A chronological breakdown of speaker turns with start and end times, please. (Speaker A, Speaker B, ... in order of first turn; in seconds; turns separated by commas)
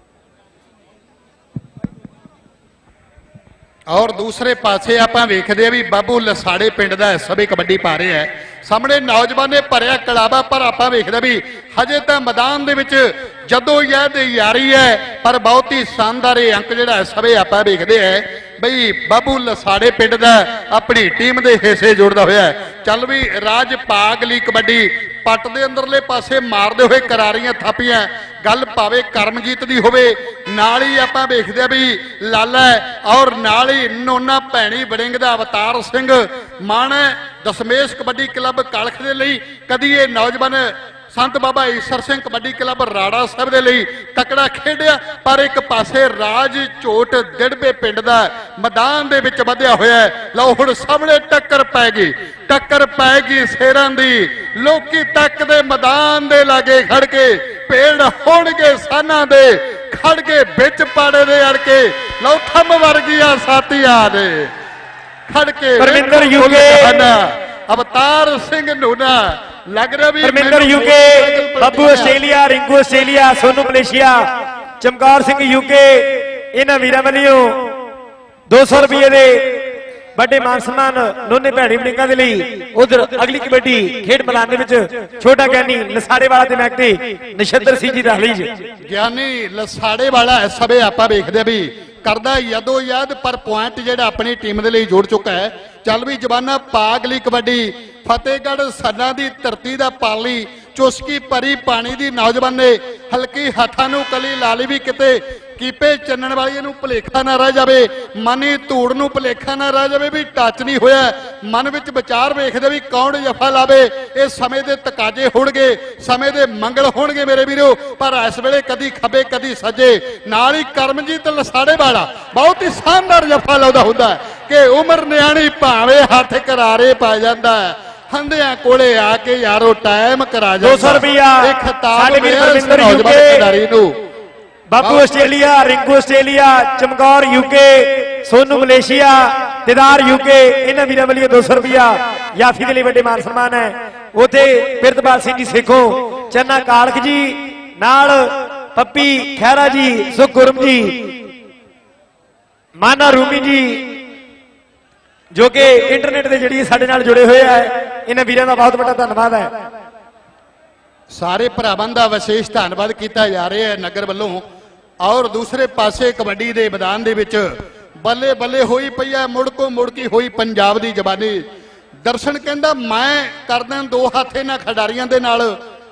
Speaker A: 3.9-64.5, Speaker A: 65.3-69.2, Speaker B: 65.8-67.1, Speaker A: 69.7-72.2, Speaker B: 70.2-74.2, Speaker B: 74.8-77.6, Speaker B: 78.5-88.5, Speaker A: 88.8-133.9, Speaker B: 130.6-133.4, Speaker B: 134.7-151.1, Speaker A: 134.8-135.1, Speaker B: 152.8-154.0, Speaker B: 155.3-159.5, Speaker A: 161.2-164.4, Speaker A: 165.0-167.5, Speaker A: 168.0-171.4, Speaker A: 172.0-175.5